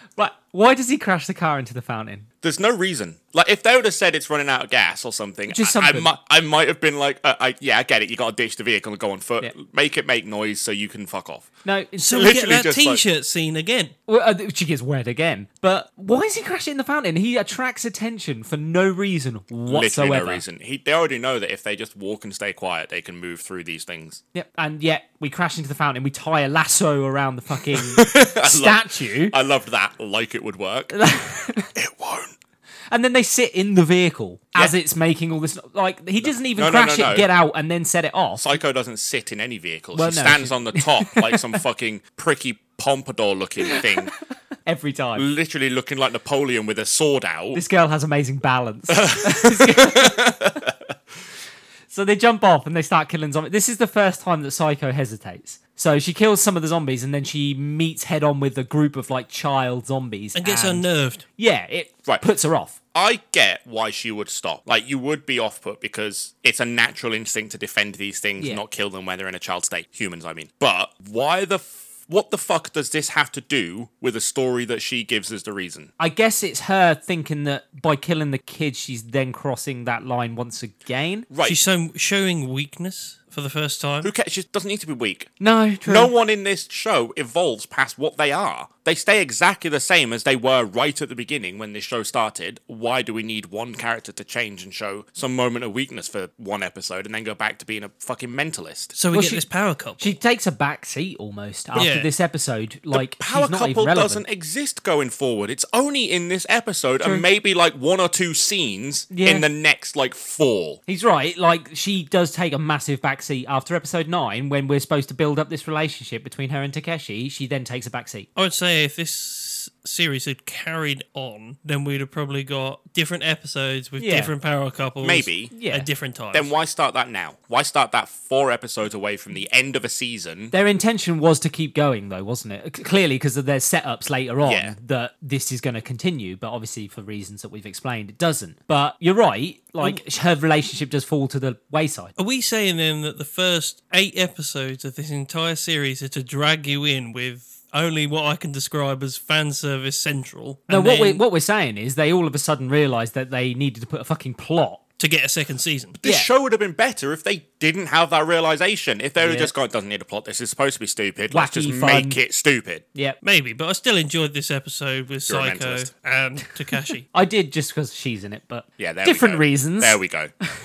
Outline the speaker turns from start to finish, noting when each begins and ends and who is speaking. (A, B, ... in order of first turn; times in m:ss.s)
0:00.2-0:02.3 A
0:02.4-0:11.5 B
0:05.5-0:06.1 A
0:11.6-0:12.4 A
0:12.0-0:13.9 C
0:12.2-0:13.0 B
0:14.1-0:20.4 A
0:19.7-0:24.2 B
0:24.3-0:29.3 A
0:27.7-0:30.9 B
0:30.9-0:31.7 A
0:31.7-0:32.3 B
0:32.9-0:38.5 A
0:36.2-0:37.3 B
0:38.4-0:44.1 B
0:39.9-0:41.5 A
0:44.6-0:45.3 A
0:45.2-0:47.6 B
0:47.5-0:50.4 A
0:48.9-0:50.7 B
0:51.9-1:02.7 A
1:00.3-1:01.2 C
1:02.9-1:15.9 B
1:16.0-1:21.3 A
1:21.3-1:21.6 B
1:21.4-1:24.1 C
1:24.0-1:25.3 B
1:25.4-1:26.1 A
1:25.8-1:38.9 B
1:38.9-1:40.1 C
1:39.1-1:39.4 A
1:40.0-1:44.2 A
1:41.7-1:42.1 C
1:42.9-1:50.8 B
1:49.1-1:49.4 A
1:50.9-1:58.3 A
1:58.4-2:06.5 C
2:04.0-2:04.3 A
2:05.0-2:05.5 B
2:05.5-2:05.9 A
2:06.3-2:10.5 B
2:10.5-2:22.1 A
2:14.4-2:14.7 B
2:22.2-2:31.2 C
2:30.7-2:34.8 A
2:35.0-2:36.0 C
2:36.0-2:42.8 B
2:36.0-2:36.3 A
2:39.2-2:39.5 A
2:41.3-2:42.2 A
2:43.2-2:47.0 C
2:45.3-2:45.9 B
2:47.1-2:50.0 A
2:48.8-2:50.3 B